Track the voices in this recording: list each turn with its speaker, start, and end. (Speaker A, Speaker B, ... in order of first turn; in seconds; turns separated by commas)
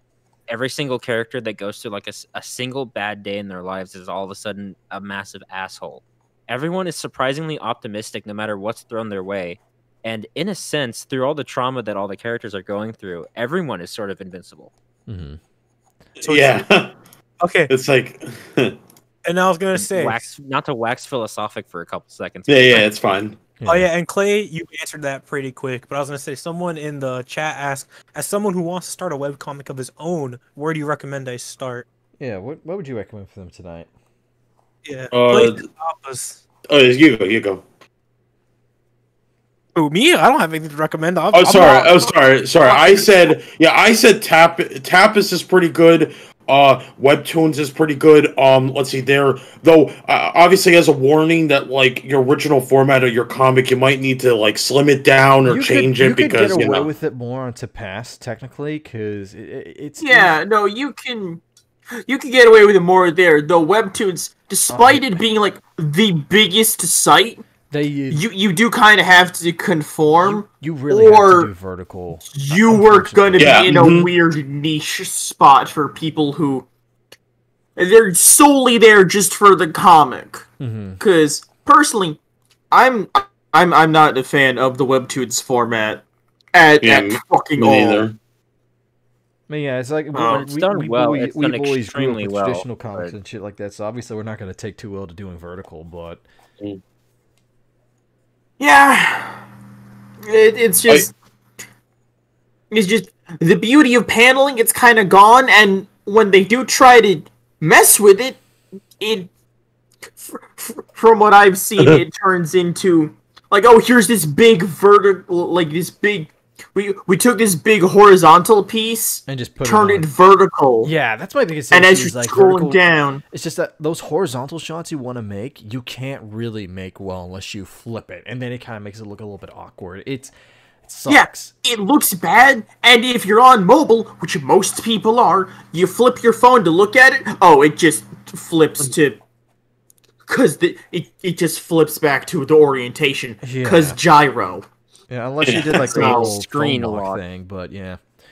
Speaker A: 0.5-14.7, Speaker B: 15.1-15.4, Speaker C: 16.2-16.9, Speaker D: 16.2-16.6, Speaker D: 17.4-17.7, Speaker C: 17.7-18.8, Speaker D: 19.2-20.2, Speaker A: 19.8-22.9, Speaker C: 22.5-23.4, Speaker B: 23.6-23.9, Speaker D: 23.6-31.8, Speaker B: 32.2-33.9, Speaker D: 34.8-36.4, Speaker C: 35.1-35.6, Speaker C: 36.7-37.6, Speaker D: 39.8-43.1, Speaker C: 41.3-56.9, Speaker B: 55.4-60.4, Speaker E: 60.0-61.4, Speaker E: 62.0-67.4, Speaker B: 64.7-65.2, Speaker B: 67.7-68.2, Speaker E: 68.1-71.5, Speaker B: 70.2-73.8, Speaker E: 72.3-76.7, Speaker C: 73.4-74.1, Speaker E: 77.8-80.5, Speaker B: 80.6-81.0, Speaker E: 81.0-82.2, Speaker E: 82.7-86.0, Speaker E: 86.5-88.1, Speaker C: 86.8-88.1, Speaker B: 89.5-96.2, Speaker E: 90.1-90.4, Speaker A: 90.2-93.1, Speaker E: 98.6-99.4, Speaker E: 100.2-101.1, Speaker E: 102.7-108.4, Speaker E: 109.0-109.3, Speaker E: 110.2-120.9, Speaker B: 119.3-120.1, Speaker B: 120.8-130.3, Speaker E: 121.7-123.2, Speaker B: 130.8-131.5, Speaker E: 131.1-139.2, Speaker E: 140.3-144.6, Speaker B: 143.4-144.0, Speaker B: 145.1-148.0, Speaker C: 145.4-145.8, Speaker A: 145.8-147.2, Speaker E: 145.8-146.3